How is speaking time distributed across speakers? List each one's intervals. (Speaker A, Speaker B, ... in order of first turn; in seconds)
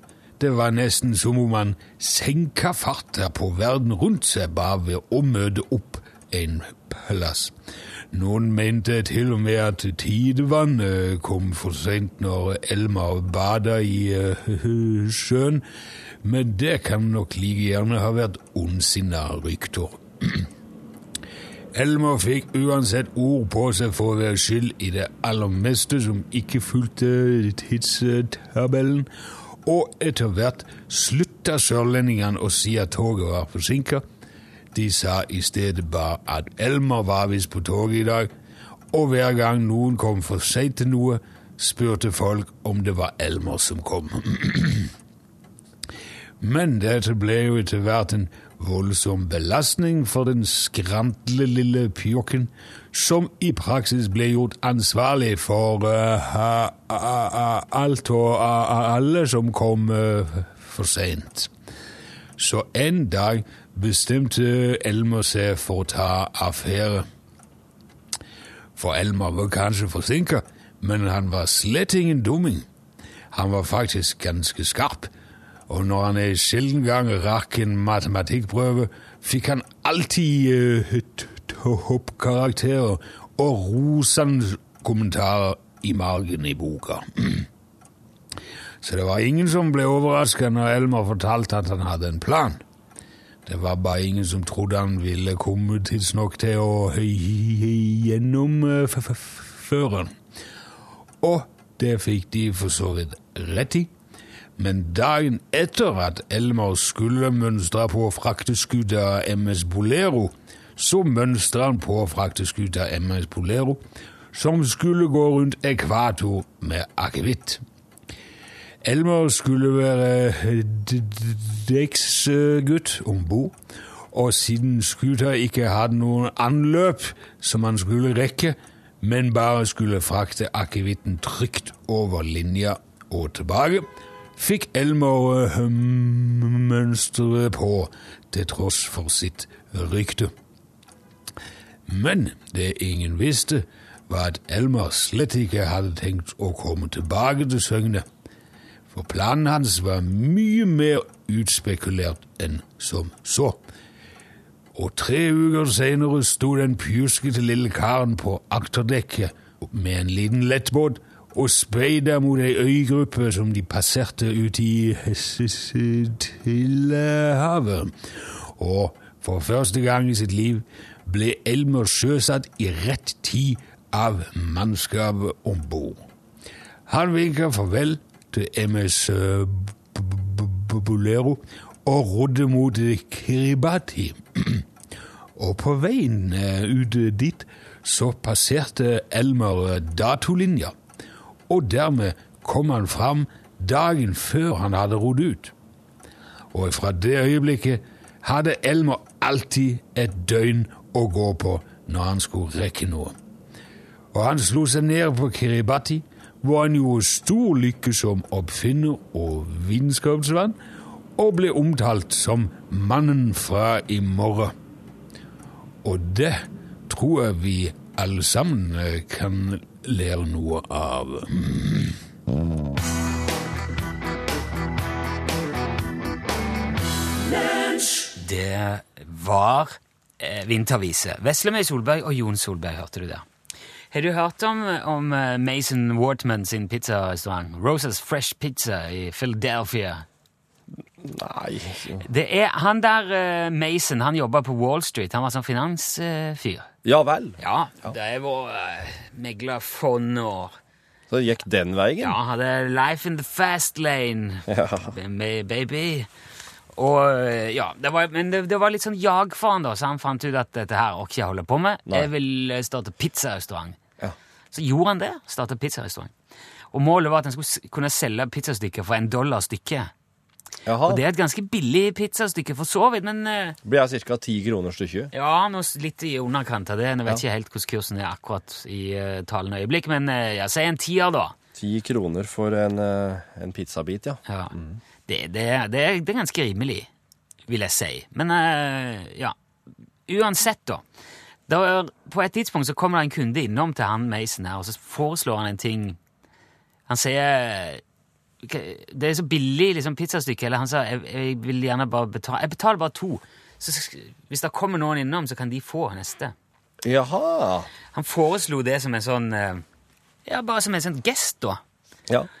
Speaker A: 0.4-7.5, 8.1-15.6, 16.2-20.5, 21.7-29.1, 29.6-34.0, 34.7-38.3, 38.9-44.9, 46.4-61.5, 62.4-67.1, 68.8-72.7, 73.3-75.1, 75.7-87.5, 88.8-92.6, 93.5-100.2, 101.2-103.9, 104.6-113.8, 114.3-117.6, 118.8-123.5, 124.1-140.3, 141.9-148.1, 148.9-153.6, 154.7-176.0, 176.9-184.7, 185.4-190.7, 191.5-195.5, 196.5-203.2, 204.1-210.5, 211.2-214.5, 215.8-222.0
Speaker B: 228.1-233.2, 233.9-240.0, 242.0-246.7, 247.4-250.6, 252.0-256.1, 256.7-263.8, 264.5-266.1, 266.7-269.9, 270.9-273.6, 275.1-281.4, 284.3-284.5, 285.1-286.9, 287.5-289.4, 290.1-290.8, 291.5-296.0, 296.9-297.8, 298.4-306.3, 307.9-309.6, 310.2-311.6
Speaker C: 241.0-242.1, 246.8-247.9, 251.1-252.2, 254.5-254.9, 270.6-271.0, 273.6-275.1, 281.5-284.8, 306.8-307.7